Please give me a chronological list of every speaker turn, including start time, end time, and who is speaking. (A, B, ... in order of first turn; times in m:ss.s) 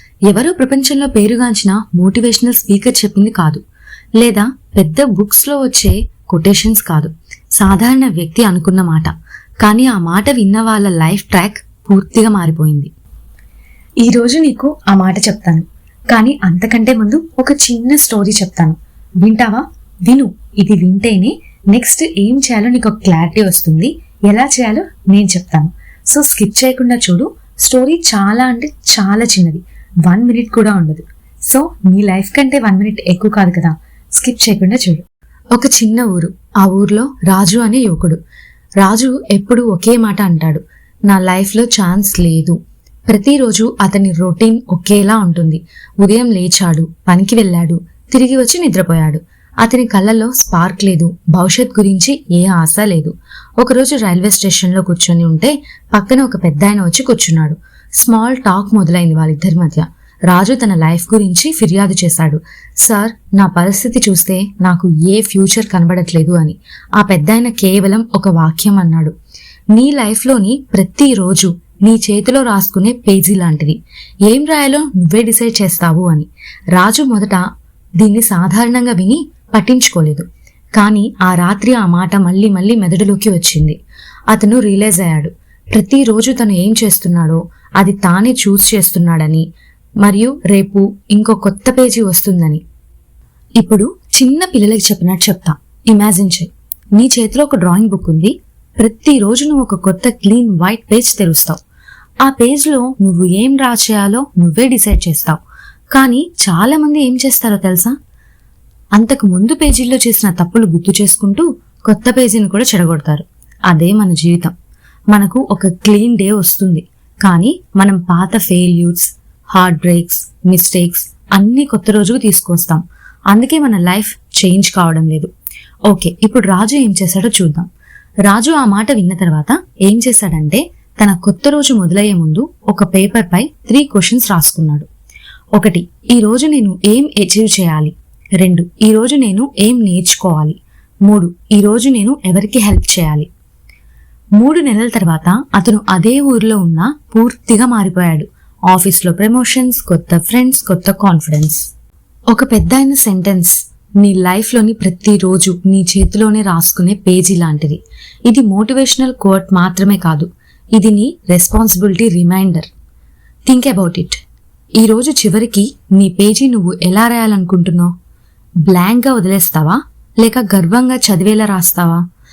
0:00.3-0:03.6 A
0:04.2-0:12.9 A
0:14.0-0:38.2 A
0:38.8-0:42.6 A
0:43.1-1:09.1 A
1:09.7-1:17.4 A
1:18.0-1:23.8 A
1:24.3-1:29.4 A
1:30.0-1:32.6 A
1:33.6-1:41.6 A
1:42.2-1:45.4 A
1:45.9-1:47.9 A
1:48.9-1:54.5 A
1:55.1-2:05.3 A
2:05.9-2:07.7 A
2:08.2-2:14.9 A
2:15.5-2:23.3 A
2:24.4-2:31.6 A
2:32.3-2:42.7 A
2:43.5-2:44.2 A
2:44.8-2:47.9 A
2:48.6-2:52.0 A